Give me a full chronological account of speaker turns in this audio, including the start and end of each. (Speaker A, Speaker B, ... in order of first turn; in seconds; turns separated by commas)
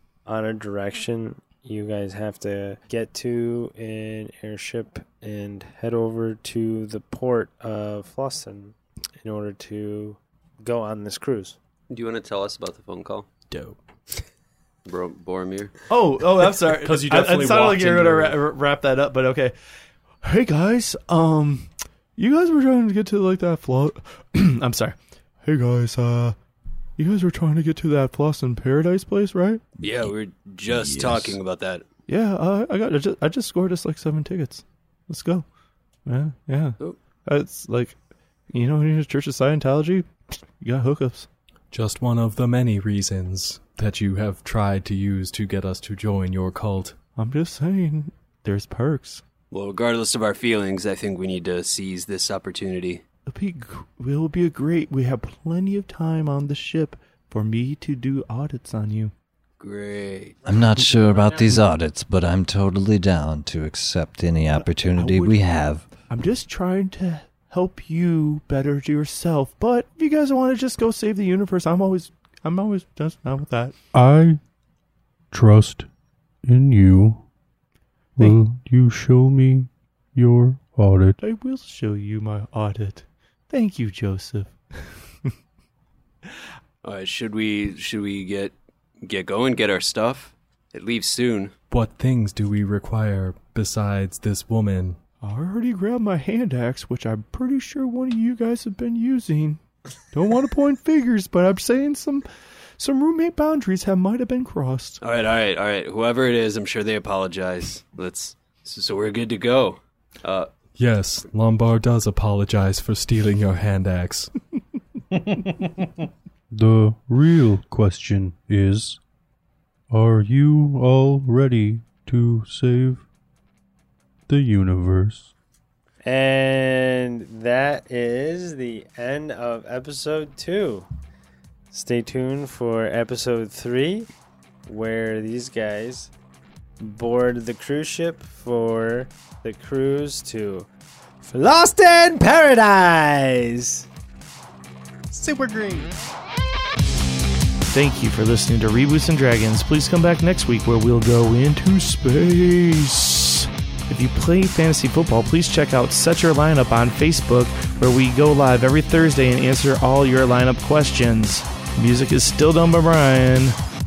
Speaker A: 0.3-11.6, Speaker B: 11.9-13.3, Speaker C: 13.5-13.8, Speaker B: 14.8-15.7, Speaker D: 15.9-19.6, Speaker C: 16.6-18.5, Speaker D: 20.2-26.4, Speaker D: 27.0-29.6, Speaker B: 29.8-31.9, Speaker C: 30.7-31.4, Speaker D: 32.1-35.5, Speaker D: 36.1-38.0, Speaker D: 38.5-40.1, Speaker D: 40.6-41.3, Speaker C: 41.7-47.0, Speaker D: 47.2-49.2, Speaker B: 49.5-53.0, Speaker D: 53.3-59.1, Speaker B: 59.6-60.4, Speaker E: 60.4-65.9, Speaker D: 64.5-65.4, Speaker D: 66.1-73.7, Speaker F: 73.9-74.4, Speaker F: 75.3-75.9, Speaker F: 76.5-77.2, Speaker F: 78.2-81.2, Speaker D: 81.2-84.5, Speaker B: 86.8-91.5, Speaker C: 91.7-95.0, Speaker D: 95.2-99.6, Speaker D: 100.1-102.3, Speaker D: 102.8-105.0, Speaker B: 105.0-110.5, Speaker C: 110.8-114.3, Speaker F: 116.5-119.0, Speaker F: 119.9-123.0, Speaker F: 124.3-125.3, Speaker A: 126.0-130.9, Speaker A: 131.7-134.1, Speaker A: 134.7-136.1, Speaker A: 136.8-140.7, Speaker A: 141.2-143.9, Speaker D: 145.1-145.9, Speaker D: 147.7-163.6